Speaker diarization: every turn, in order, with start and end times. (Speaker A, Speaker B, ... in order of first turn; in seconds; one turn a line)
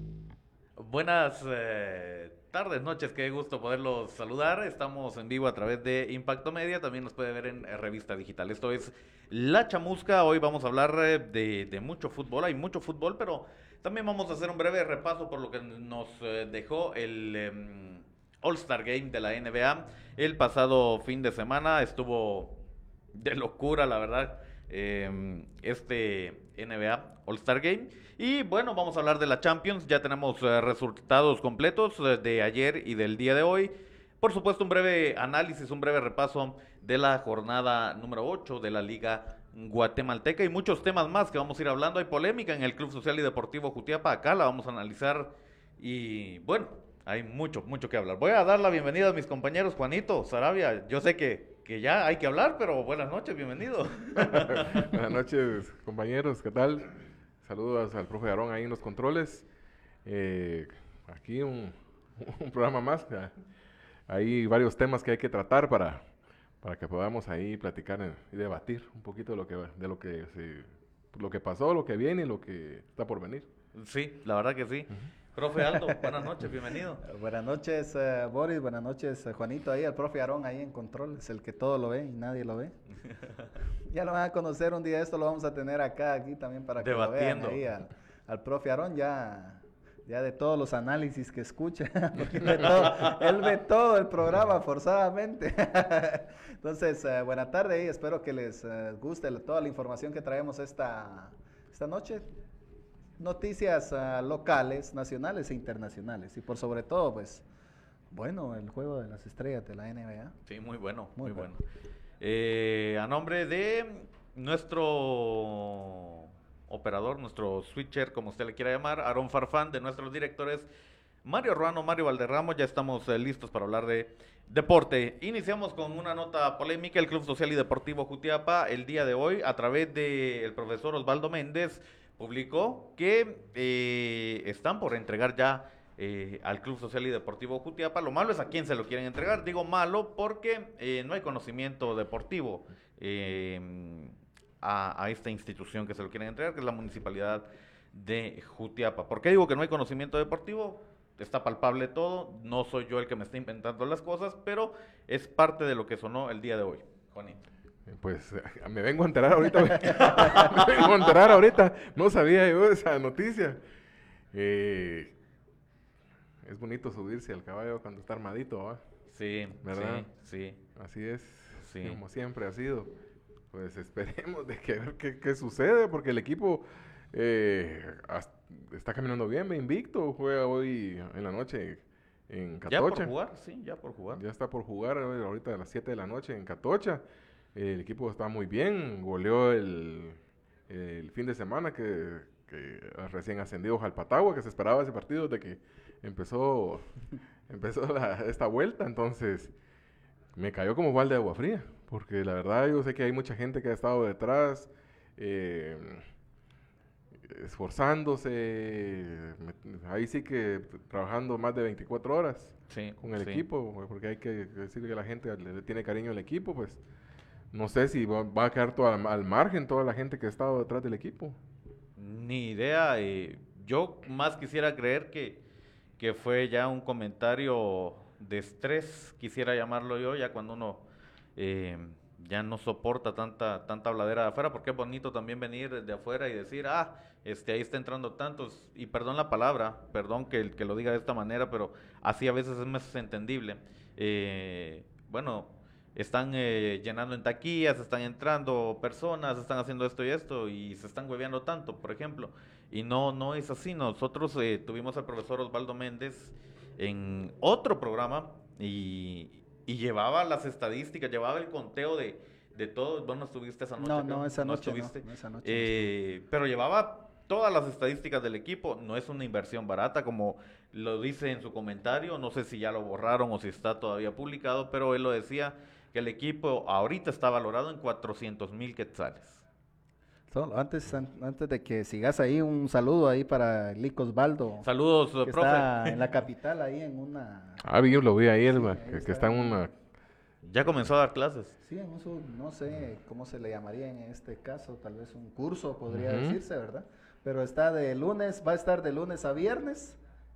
Speaker A: 0.8-22.6
Speaker A: 23.1-54.9
Speaker B: 54.3-59.5
Speaker B: 60.0-63.3
Speaker B: 64.1-66.1
Speaker B: 66.6-73.5
Speaker A: 73.8-77.0
Speaker C: 75.7-76.3
Speaker C: 77.0-82.8
Speaker C: 83.9-102.3
Speaker A: 86.8-87.6
Speaker A: 92.5-93.2
Speaker C: 103.2-107.4
Speaker C: 108.1-110.4
Speaker A: 110.5-111.6
Speaker C: 111.2-111.5
Speaker A: 112.2-120.7
Speaker A: 121.2-157.4
Speaker B: 157.9-163.6
Speaker A: 159.9-160.9
Speaker B: 164.3-165.1
Speaker B: 166.4-168.8
Speaker A: 169.1-170.6
Speaker B: 169.6-170.1
Speaker B: 170.8-172.9
Speaker A: 171.6-172.0
Speaker B: 173.5-183.1
Speaker A: 182.7-184.2
Speaker B: 184.1-187.0
Speaker B: 187.6-190.2
Speaker B: 190.7-196.9
Speaker B: 197.5-199.5
Speaker B: 200.3-206.0
Speaker B: 207.2-216.8
Speaker A: 212.7-213.4
Speaker B: 217.5-221.4
Speaker A: 222.0-225.4
Speaker A: 226.0-230.8
Speaker A: 231.4-279.4
Speaker C: 263.8-265.9
Speaker C: 280.3-284.7
Speaker A: 284.6-286.0
Speaker C: 285.2-287.6
Speaker B: 287.6-289.7
Speaker C: 288.5-289.6
Speaker A: 290.4-291.5
Speaker C: 291.6-300.0
Speaker B: 295.9-296.4